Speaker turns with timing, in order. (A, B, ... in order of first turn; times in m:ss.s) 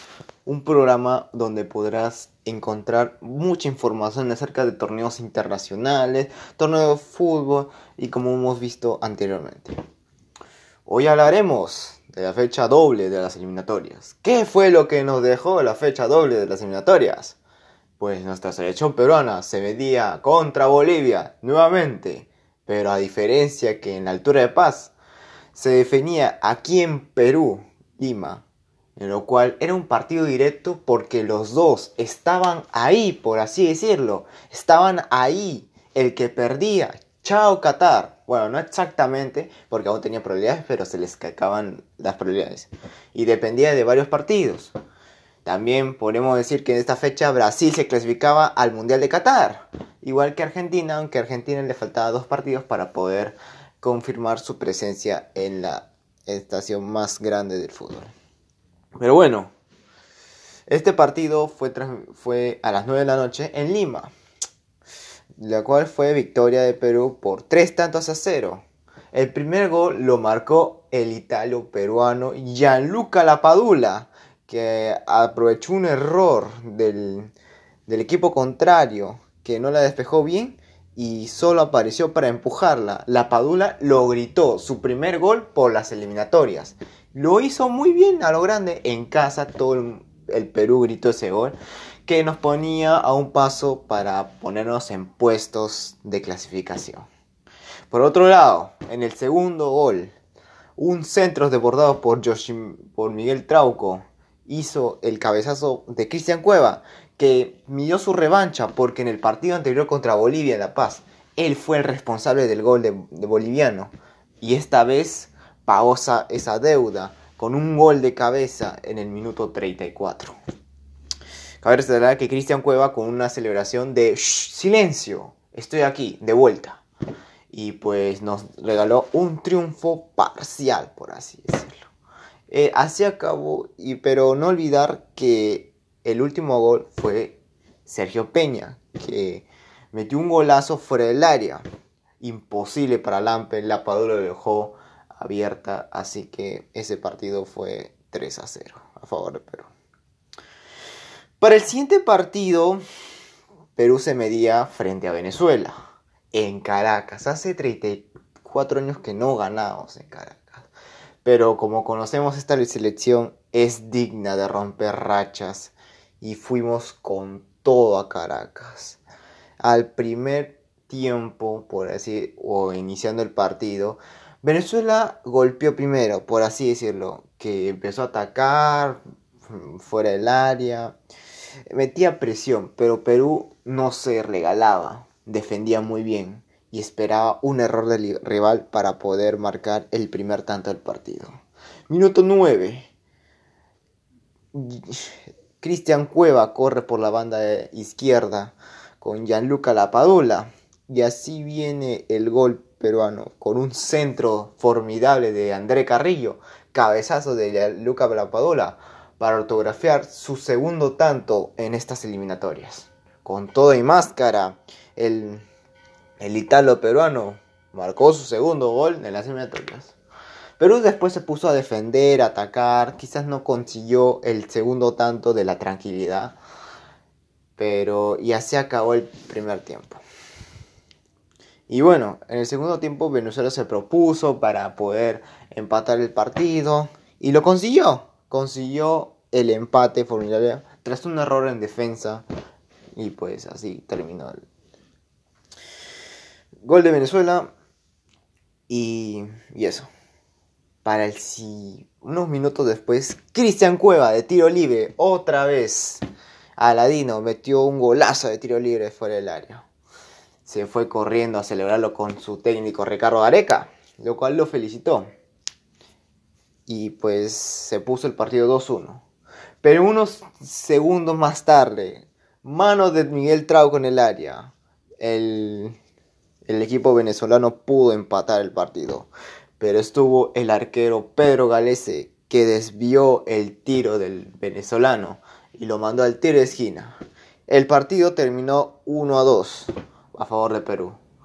0:00.4-0:09.8 A
0:10.8-0:17.4 A
0:18.0-0:24.9 A
0:25.5-0:28.4 A
0:29.0-0:44.7 A
0:45.4-0:58.1 A
0:59.0-0:59.5 A
1:00.7-1:04.1 A
1:05.4-1:17.3 A
1:17.9-1:37.1 A
1:37.9-1:40.1 A
1:40.8-2:00.3 A
2:01.6-2:06.8 A
2:07.5-2:11.8 A
2:12.5-2:21.6 A
2:22.2-2:29.7 A
2:31.4-2:32.8 A
2:33.8-2:35.7 A
2:36.3-2:40.7 A
2:41.2-2:49.0 A
2:49.6-3:01.0 A
3:01.7-3:12.9 A
3:14.5-3:35.4 A
3:36.2-3:39.9 A
3:40.6-3:46.4 A
3:47.6-3:50.0 A
3:51.7-4:02.2 A
4:03.0-4:04.4 A
4:06.6-4:07.5 A
4:08.7-4:09.9 A
4:10.8-4:16.0 A
4:16.6-4:19.6 A
4:20.4-4:25.1 A
4:26.7-4:29.0 A
4:29.6-4:35.8 A
4:36.5-4:47.0 A
4:47.5-4:51.0 A